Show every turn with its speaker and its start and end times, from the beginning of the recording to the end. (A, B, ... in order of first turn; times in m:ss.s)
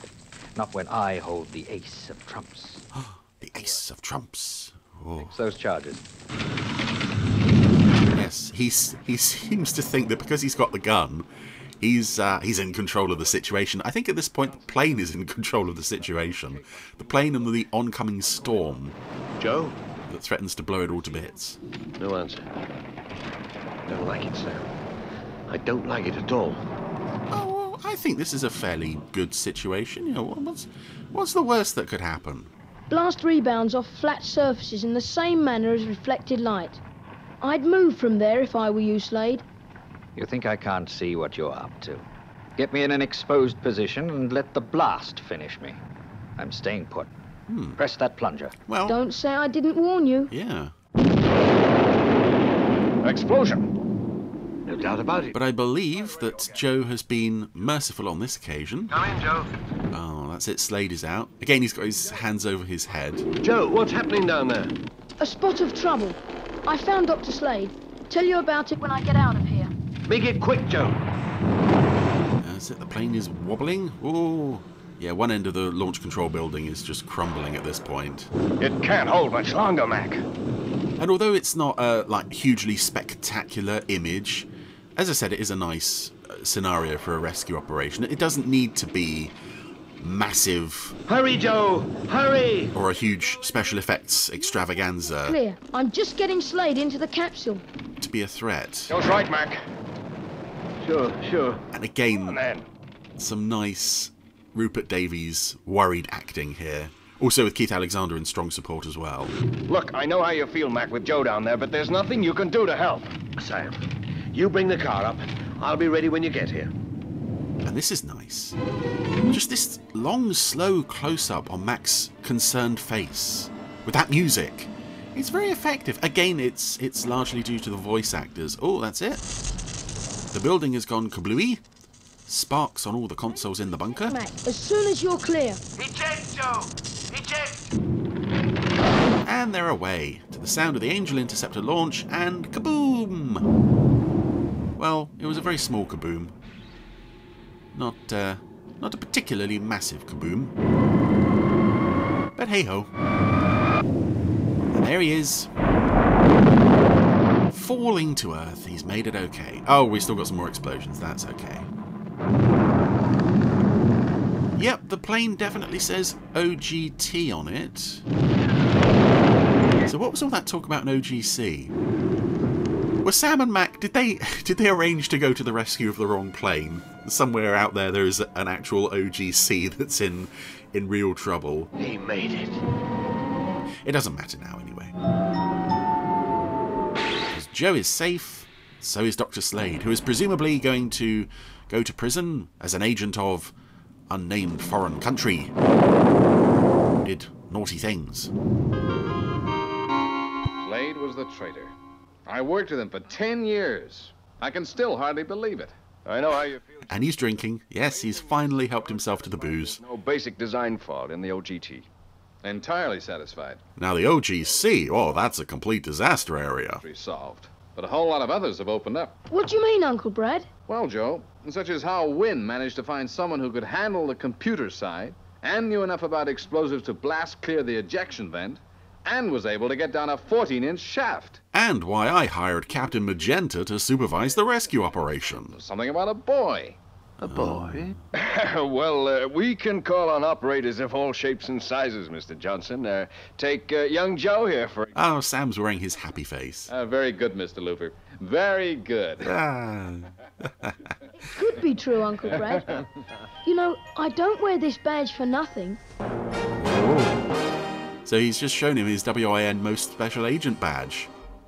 0:00.6-0:02.8 A
0:02.9-0:05.4 B
0:05.1-0:06.0 A
0:08.1-0:11.2 B
0:11.8-0:18.9 B
0:19.4-0:19.8 C
0:20.1-0:21.6 B
0:22.0-0:22.4 C
0:23.9-0:24.7 C
0:25.5-0:26.6 C
0:27.3-0:32.5 B
0:32.9-0:36.8 D
0:37.4-0:39.4 D
0:40.2-0:45.8 A
0:46.4-0:47.1 A
0:47.5-0:47.8 B
0:47.8-0:48.6 A
0:48.7-0:49.0 B
0:48.9-0:50.3 D
0:50.3-0:50.7 B
0:53.0-0:53.7 E
0:54.6-0:55.4 C
0:55.3-0:59.0 B
0:58.9-0:59.5 C
0:59.9-1:03.3 B
1:03.3-1:04.8 C
1:05.2-1:09.7 D
1:10.1-1:11.0 C
1:12.4-1:18.3 B
1:18.6-1:20.2 E
1:21.0-1:29.3 B
1:30.0-1:31.0 B
1:31.1-1:32.7 C
1:32.7-1:35.4 B
1:35.2-1:37.6 D
1:38.0-1:39.0 B
1:38.9-1:39.6 E
1:40.8-1:41.6 C
1:41.7-1:42.5 B
1:42.3-1:42.6 E
1:43.2-1:49.4 B
1:49.7-1:53.2 E
1:53.4-1:56.7 C
1:57.6-1:58.6 B
1:59.3-2:09.3 B
2:10.3-2:11.6 B
2:12.3-2:14.2 B
2:13.9-2:15.6 D
2:15.8-2:17.6 C
2:19.2-2:23.4 B
2:24.8-2:26.3 B
2:27.7-2:30.5 B
2:32.4-2:32.9 B
2:34.7-2:35.5 B
2:37.5-2:41.7 B
2:44.6-2:48.0 B
2:49.8-2:51.7 B
2:53.0-3:01.7 B
3:01.8-3:02.6 C
3:03.8-3:04.9 B
3:07.3-3:13.5 B
3:14.1-3:15.5 B
3:17.0-3:18.3 B
3:20.6-3:21.7 F
3:22.3-3:25.7 F
3:26.0-3:26.9 E
3:26.9-3:29.8 B
3:28.9-3:31.9 E
3:32.4-3:33.6 F
3:33.8-3:36.8 B
3:36.8-3:39.1 F
3:39.3-3:40.5 D
3:40.7-3:51.4 F
3:51.5-3:55.6 B
3:55.5-3:56.8 F
3:57.2-3:58.0 C
3:57.2-3:57.9 B
3:58.1-4:04.9 E
4:04.9-4:06.7 B
4:06.7-4:09.3 F
4:09.2-4:10.9 B
4:11.2-4:12.8 D
4:13.4-4:15.8 D
4:16.6-4:17.2 B
4:18.0-4:21.1 B